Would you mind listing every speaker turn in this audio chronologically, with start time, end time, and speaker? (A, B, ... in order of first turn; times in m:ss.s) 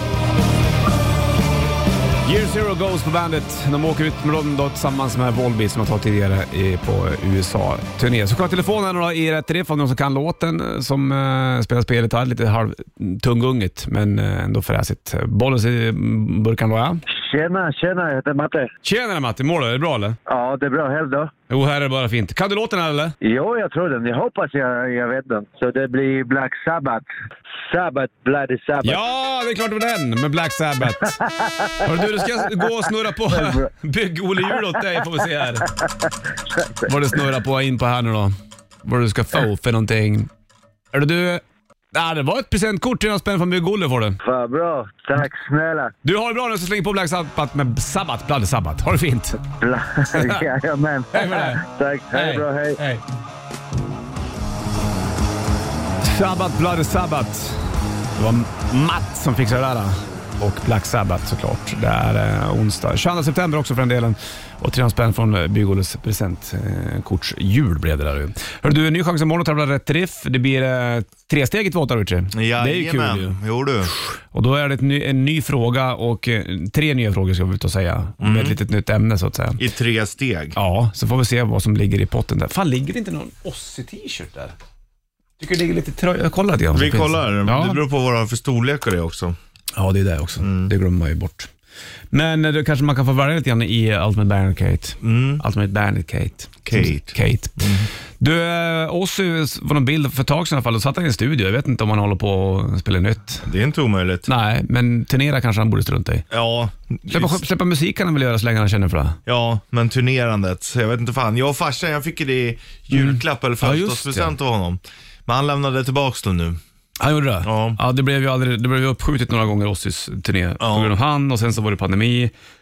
0:02.2-0:17.0 A
0:17.1-0:18.7 B
0:18.8-0:20.2 A
0:20.3-0:21.3 B
0:21.5-0:23.1 A
0:23.2-0:27.1 B
0:27.7-0:29.0 B
0:28.8-0:31.2 A
0:31.1-0:32.2 B
0:31.8-0:35.7 A
0:33.3-0:33.7 B
0:36.5-0:36.9 B
0:36.9-0:40.3 A
0:40.9-0:44.2 A
0:44.2-0:45.9 B
0:46.0-0:49.4 A
0:49.6-0:52.8 B
0:50.1-0:50.4 A
0:51.1-0:51.6 A
0:52.1-0:53.0 A
0:56.0-1:13.4 A
1:12.3-1:13.9 C
1:13.9-1:19.6 A
1:18.2-1:18.6 C
1:19.6-1:20.6 C
1:20.6-1:24.6 A
1:25.4-1:27.8 A
1:26.7-1:29.4 C
1:29.8-1:31.5 A
1:30.4-1:30.7 C
1:32.1-1:37.7 A
1:35.0-1:35.4 C
1:36.7-1:37.9 C
1:38.2-1:43.5 A
1:43.4-1:44.3 C
1:44.3-1:46.3 A
1:46.3-1:47.4 C
1:47.1-1:49.2 A
1:49.3-1:56.6 C
1:52.9-1:54.4 A
1:57.0-2:02.3 A
1:57.4-1:57.8 C
2:00.6-2:00.9 C